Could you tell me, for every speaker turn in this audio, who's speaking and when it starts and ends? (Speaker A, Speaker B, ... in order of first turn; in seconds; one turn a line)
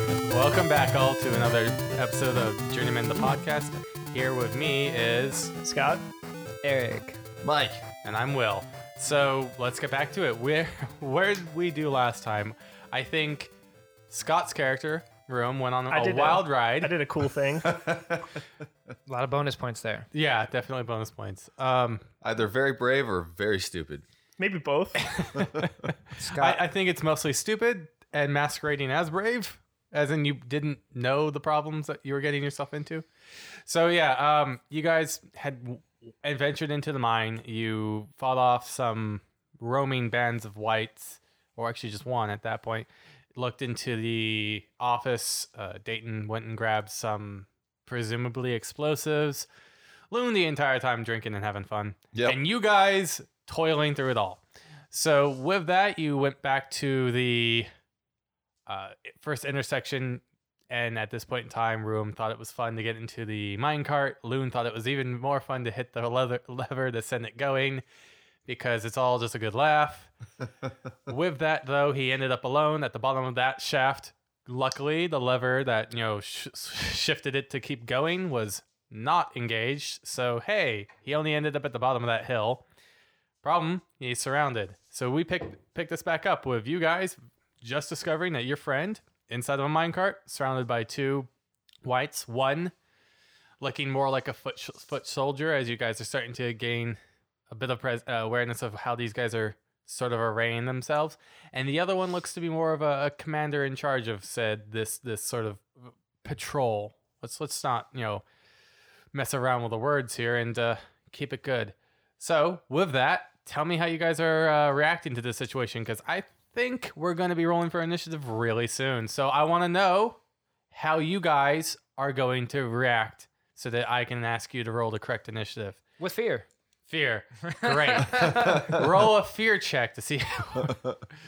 Speaker A: 0.2-5.5
Speaker B: 5.6-6.0
Speaker C: 6.6-7.2
Speaker D: 7.4-7.8
Speaker A: 8.0-13.5
Speaker A: 14.1-16.9
Speaker B: 15.9-17.7
Speaker D: 17.6-18.4
Speaker C: 19.1-20.1
Speaker A: 20.1-22.0
Speaker D: 22.2-24.0
Speaker B: 24.4-25.1
Speaker A: 25.0-33.0
Speaker D: 25.4-25.7
Speaker C: 26.2-26.6
Speaker A: 33.6-49.5
Speaker A: 50.1-54.4
Speaker D: 52.1-52.4
Speaker A: 54.9-57.7
Speaker A: 58.7-67.8
Speaker A: 68.5-70.1
Speaker A: 71.1-82.6
Speaker A: 83.4-91.3
Speaker A: 91.8-92.7
Speaker A: 93.6-97.0
Speaker A: 97.5-108.2
Speaker A: 109.1-120.2
Speaker A: 120.7-125.8
Speaker C: 126.0-126.5
Speaker A: 126.9-130.8
Speaker C: 127.5-128.6
Speaker D: 128.1-129.0
Speaker D: 130.6-131.0